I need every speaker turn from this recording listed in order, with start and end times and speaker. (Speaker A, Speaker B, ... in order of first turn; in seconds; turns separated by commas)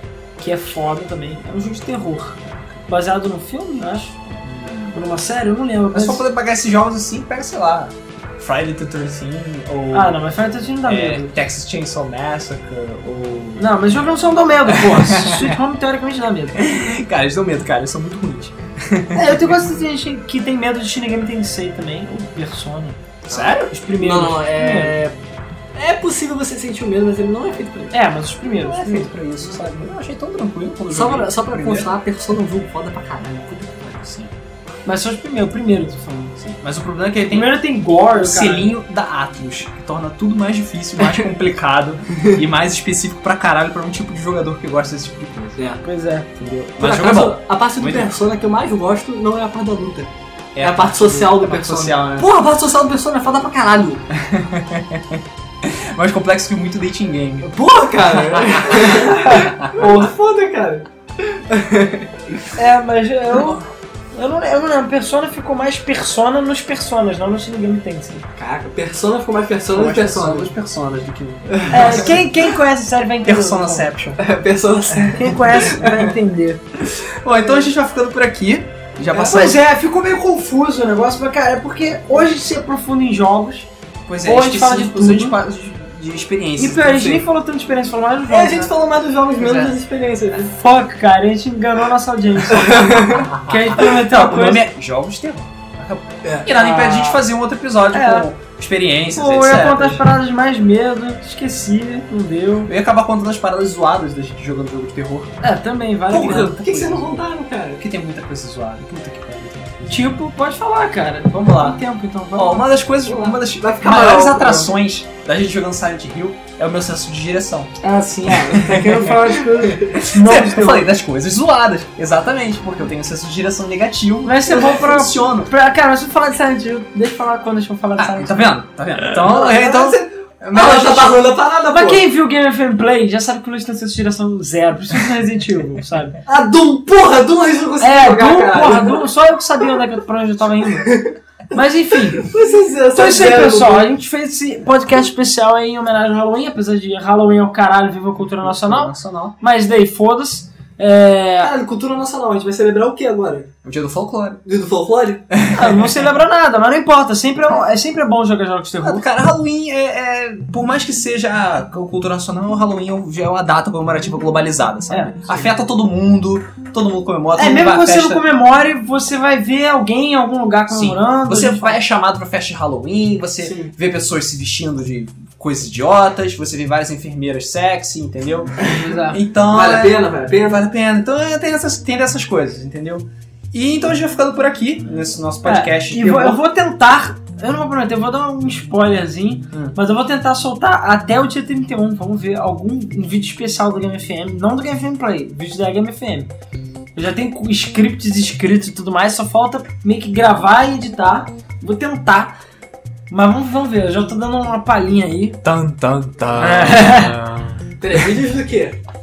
Speaker A: 0.4-4.2, Speaker B: 4.4-5.0, Speaker A: 4.9-6.2, Speaker B: 5.9-10.2, Speaker A: 9.9-11.4, Speaker B: 10.9-14.0, Speaker A: 13.6-16.6, Speaker B: 14.7-15.6, Speaker B: 16.6-19.5, Speaker A: 19.1-23.0, Speaker B: 23.3-23.7, Speaker C: 23.3-25.1, Speaker A: 23.7-25.0, Speaker C: 25.8-27.9, Speaker A: 27.9-29.1, Speaker B: 28.6-31.9, Speaker C: 30.9-34.2, Speaker A: 34.9-36.4, Speaker B: 36.4-45.7, Speaker A: 37.3-38.7, Speaker C: 42.1-42.4, Speaker A: 45.8-46.3, Speaker B: 46.4-48.1, Speaker C: 46.8-54.0, Speaker B: 50.5-52.3, Speaker B: 54.1-57.5, Speaker C: 57.4-62.2, Speaker B: 58.1-59.8, Speaker A: 59.1-60.1, Speaker A: 62.6-68.3, Speaker C: 68.4-70.5, Speaker B: 69.7-72.3, Speaker C: 71.5-72.1, Speaker A: 71.7-73.9, Speaker B: 73.2-74.2, Speaker C: 74.2-76.2, Speaker B: 74.9-75.3, Speaker A: 75.0-76.6, Speaker B: 76.9-79.6, Speaker A: 79.1-83.7, Speaker B: 84.1-87.3, Speaker A: 84.2-85.4, Speaker A: 86.6-88.7, Speaker C: 88.3-90.6, Speaker B: 89.4-89.8, Speaker A: 90.6-94.7, Speaker C: 92.5-93.3, Speaker B: 93.3-100.0, Speaker A: 96.5-97.2, Speaker A: 97.9-98.3, Speaker A: 99.1-102.7, Speaker B: 102.7-105.3, Speaker A: 105.4-106.6, Speaker C: 106.1-107.8, Speaker B: 106.4-107.2, Speaker B: 107.8-110.1, Speaker A: 109.9-112.7, Speaker B: 111.3-111.8, Speaker B: 112.3-125.5, Speaker C: 113.1-114.7, Speaker A: 117.8-120.9, Speaker C: 119.6-119.9, Speaker A: 124.2-128.6, Speaker B: 128.0-131.3, Speaker C: 129.2-132.0, Speaker A: 131.7-136.2, Speaker C: 136.3-139.1, Speaker A: 137.8-141.0, Speaker C: 140.8-141.1, Speaker A: 141.5-142.3, Speaker C: 142.1-143.9, Speaker A: 142.9-151.5, Speaker B: 148.4-149.4, Speaker C: 151.4-153.5, Speaker B: 153.6-154.4, Speaker C: 154.4-155.3, Speaker B: 155.3-156.1, Speaker A: 155.5-159.0, Speaker B: 158.8-168.2, Speaker A: 164.9-165.2, Speaker A: 167.4-171.8, Speaker B: 170.7-186.4, Speaker C: 173.4-173.7, Speaker A: 178.7-179.2, Speaker C: 179.4-180.7, Speaker A: 185.4-196.3, Speaker A: 197.0-202.3, Speaker A: 203.1-205.4, Speaker B: 205.4-208.1, Speaker A: 206.4-207.2, Speaker C: 207.8-208.8